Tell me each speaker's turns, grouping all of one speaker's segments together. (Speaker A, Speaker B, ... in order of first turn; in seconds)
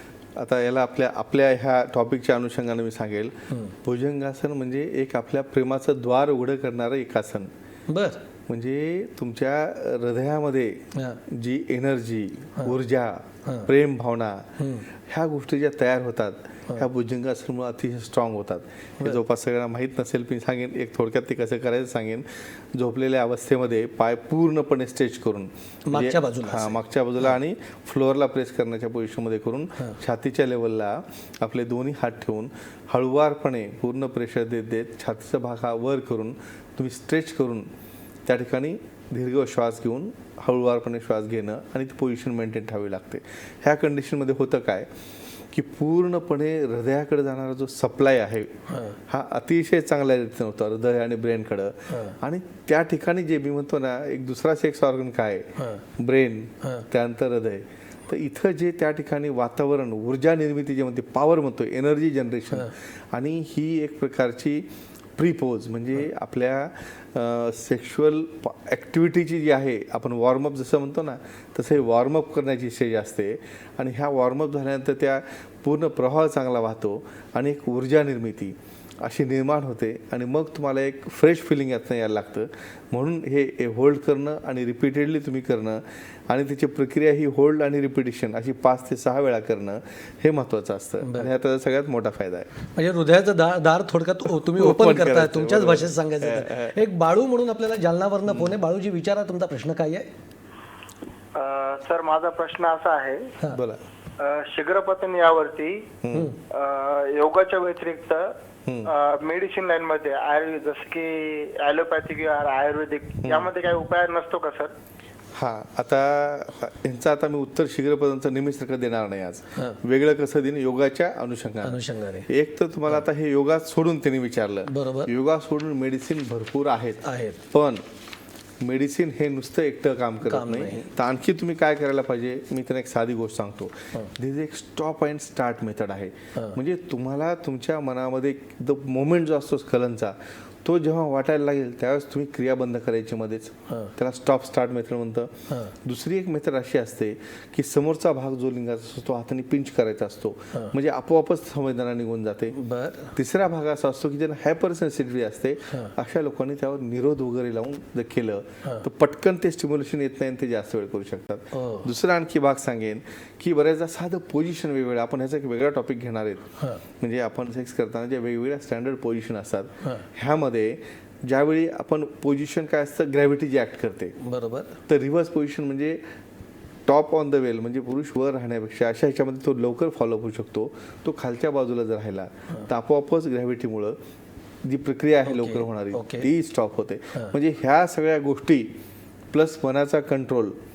Speaker A: 0.3-7.5, 8.5-37.7, 38.2-44.9, 45.5-92.5, 94.3-96.8, 98.3-98.5, 103.5-103.8, 106.0-106.3, 108.7-108.9, 113.2-113.5, 115.3-127.8, 128.6-152.6, 153.1-174.2, 174.9-176.0, 176.8-184.0, 184.6-188.8, 189.3-190.6
Speaker B: 7.9-8.2, 10.9-11.2, 14.6-14.9, 25.9-26.8, 48.7-49.0, 51.9-52.2, 55.6-55.8, 91.0-91.3, 92.8-100.1, 121.6-122.3, 124.7-125.1, 127.0-127.4, 130.2-130.9, 145.5-145.7, 152.5-153.1, 161.5-161.9, 174.2-174.7, 185.2-186.3
Speaker C: 101.3-103.3, 104.2-105.9, 106.5-108.3, 108.8-114.7